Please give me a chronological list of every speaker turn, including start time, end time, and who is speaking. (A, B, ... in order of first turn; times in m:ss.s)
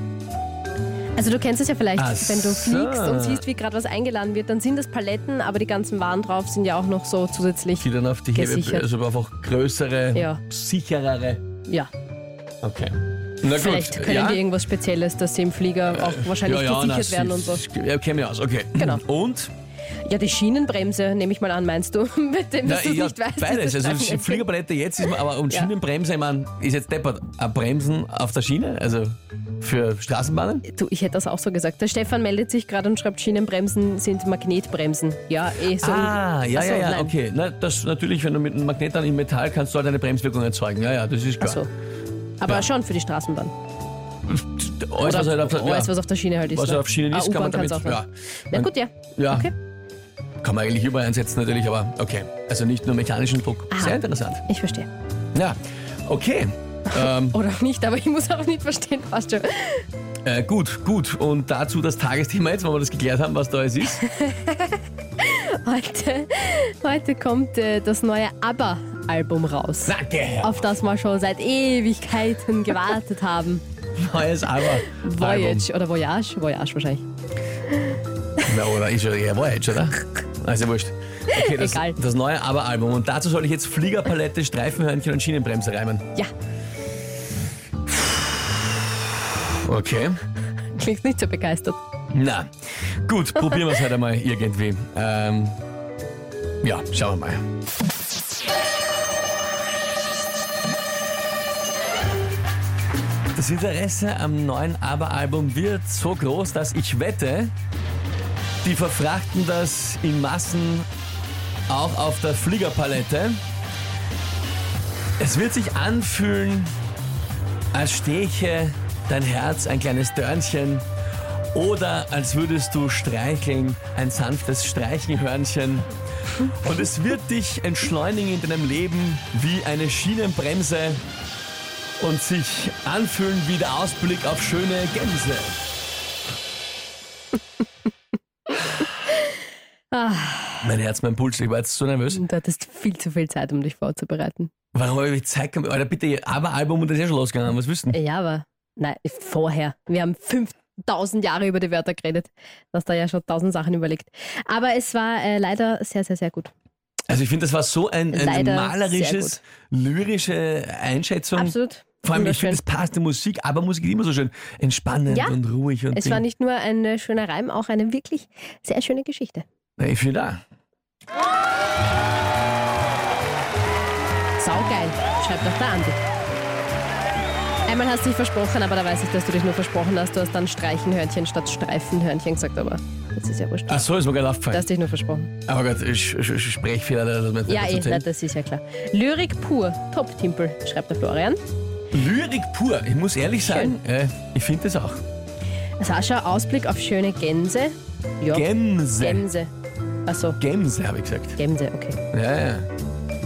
0:01.2-0:08.9 A
0:02.0-0:03.4 B
0:07.8-0:11.4 B
0:10.1-0:10.4 A
0:12.6-0:14.4 B
0:13.5-0:17.6 A
0:15.9-0:19.5 B
0:18.8-0:19.0 A
0:20.0-0:24.5 A
0:22.6-0:30.6 B
0:25.0-0:25.7 A
0:30.7-0:37.1 A
0:35.7-0:41.6 B
0:41.4-0:41.7 A
0:42.4-0:43.5 A
0:44.2-0:49.5 B
0:45.0-0:49.5 A
0:50.4-0:54.4 B
0:53.7-0:54.9 A
0:55.3-0:57.4 B
0:56.9-0:59.8 A
1:00.2-1:04.0 B
1:03.9-1:13.6 A
1:09.8-1:10.6 B
1:14.0-1:15.7 B
1:14.8-1:17.0 A
1:18.4-1:26.1 B
1:21.3-1:22.0 A
1:29.4-1:30.2 B
1:30.8-1:31.8 A
1:32.1-1:32.5 B
1:33.0-1:35.6 B
1:36.6-1:37.4 B
1:43.3-1:47.5 B
1:48.6-1:50.9 B
1:51.7-1:53.4 B
1:55.2-1:56.7 B
1:57.7-2:00.8 B
2:01.5-2:05.9 B
2:06.4-2:11.0 B
2:12.0-2:15.6 B
2:19.9-2:20.7 A
2:20.6-2:22.2 B
2:22.1-2:24.5 A
2:24.7-2:28.0 B
2:27.9-2:36.5 A
2:37.1-2:46.2 B
2:38.1-2:39.4 A
2:41.4-2:42.6 A
2:45.1-2:45.4 A
2:45.9-2:49.4 A
2:49.8-2:50.4 B
2:54.4-2:56.0 A
2:57.6-3:03.8 A
3:03.7-3:04.7 B
3:04.5-3:05.3 A
3:05.4-3:08.1 B
3:07.5-3:11.4 A
3:11.9-3:15.0 B
3:13.4-3:13.8 A
3:15.8-3:19.5 A
3:18.3-3:19.3 B
3:20.1-3:20.4 A
3:20.4-3:21.4 B
3:21.4-3:22.0 A
3:22.1-3:22.7 B